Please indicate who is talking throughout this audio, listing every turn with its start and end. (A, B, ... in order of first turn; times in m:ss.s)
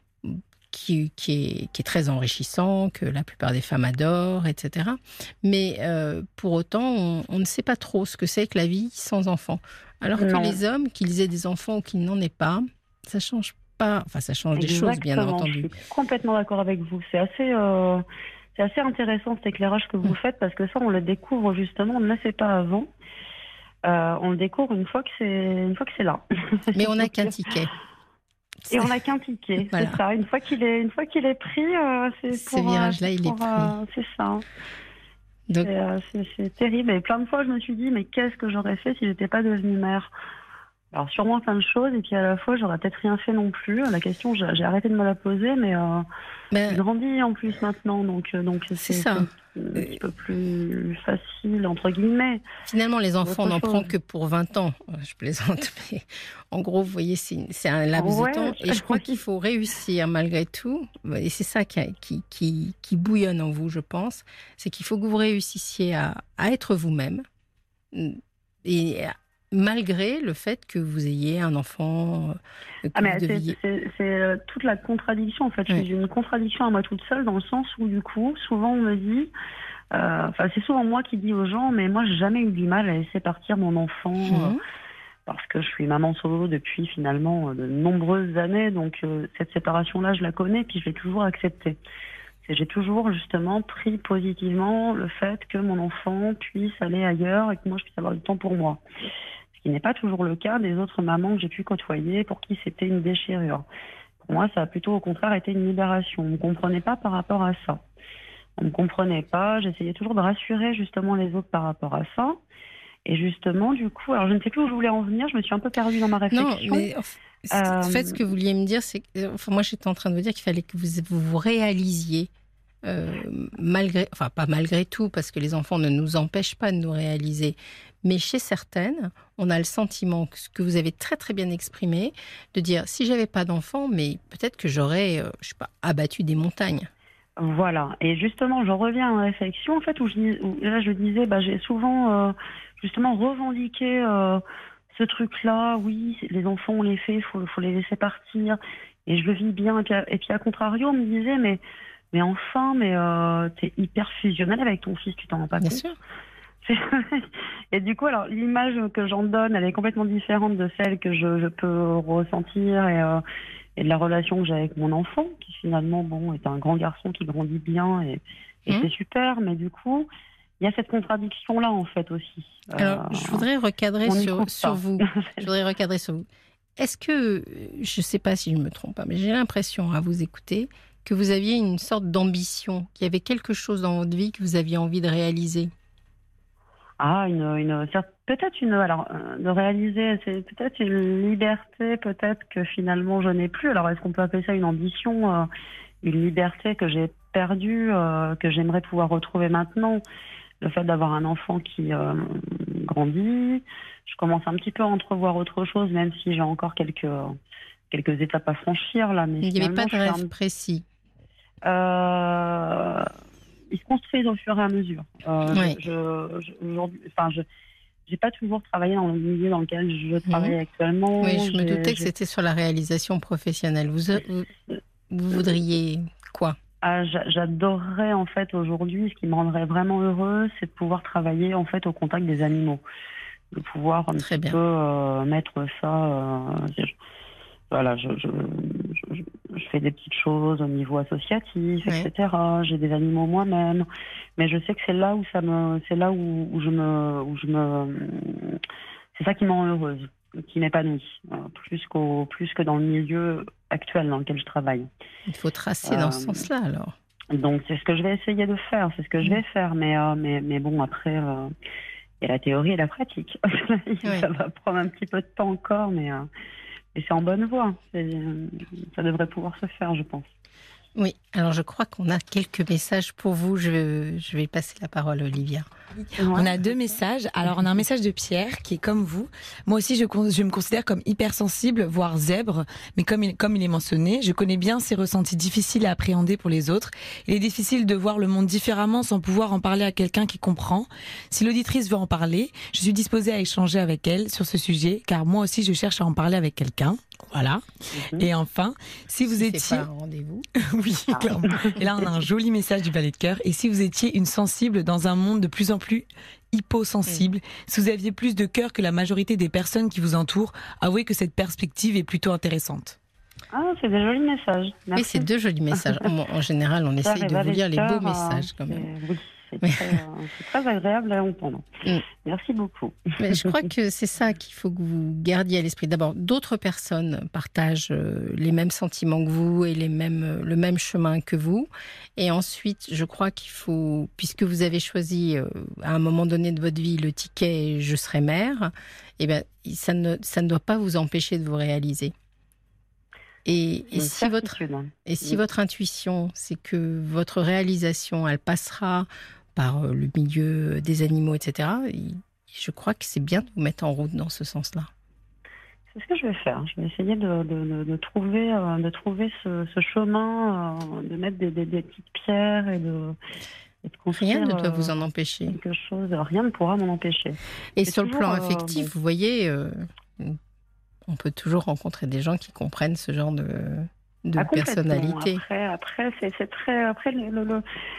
0:00.2-0:15.7 A
0:10.2-0:10.6 B
0:14.5-0:18.0 B
0:18.6-0:22.9 B
0:23.8-0:27.4 B
0:26.7-0:27.7 A
0:28.7-0:34.4 B
0:29.6-0:30.0 A
0:32.3-0:33.7 A
0:35.6-0:40.1 B
0:40.9-0:46.0 B
0:46.5-0:46.8 A
0:46.7-0:52.4 B
0:48.8-0:50.0 A
0:52.6-1:07.2 A
0:53.2-0:53.9 B
0:58.0-0:59.2 B
1:07.9-1:13.5 A
1:12.9-1:19.3 B
1:19.9-1:24.6 B
1:24.3-1:24.6 A
1:25.3-1:31.8 B
1:32.4-1:38.8 B
1:39.5-1:43.6 B
1:44.2-1:47.8 B
1:48.6-1:52.4 B
1:53.0-1:56.9 B
1:56.3-2:02.3 A
1:57.5-1:58.2 B
2:02.8-2:16.9 A
2:17.4-2:31.6 B
2:32.1-2:35.8 B
2:35.6-2:36.0 A
2:36.6-2:43.2 B
2:43.8-2:50.1 B
2:50.6-2:53.4 B
2:52.8-2:56.2 A
2:54.0-2:55.4 B
2:56.8-3:05.7 A
3:07.0-3:15.5 B
3:16.0-3:20.0 B
3:20.6-3:27.4 B
3:27.9-3:30.3 B
3:29.4-3:30.8 A
3:31.6-3:33.1 B
3:33.7-3:37.4 B
3:35.5-3:35.8 A
3:38.1-3:42.1 B
3:40.3-3:40.6 A
3:41.2-3:44.5 A
3:45.1-3:46.6 A
3:46.8-3:52.8 B
3:53.5-3:56.9 B
3:54.2-3:54.6 A
3:57.7-4:08.6 B
4:09.1-4:14.9 B
4:15.3-4:16.9 A
4:15.8-4:16.5 B
4:17.3-4:21.5 B
4:22.2-4:26.3 B
4:26.9-4:30.3 B
4:31.0-4:35.7 A
4:36.2-4:36.6 B
4:36.3-4:59.9 C
4:58.0-4:58.3 B
4:59.3-5:00.5 A
5:00.6-5:13.0 C
5:01.1-5:01.7 B
5:13.5-5:16.1 B
5:15.0-5:18.9 A
5:17.0-5:23.6 B
5:19.6-5:20.0 A
5:23.2-5:42.1 A
5:43.4-5:54.9 A
5:43.9-5:45.4 B
5:55.9-6:03.2 B
6:03.8-6:08.9 B
6:04.1-6:05.6 A
6:07.8-6:10.4 A
6:11.1-6:15.4 A
6:14.4-6:17.6 B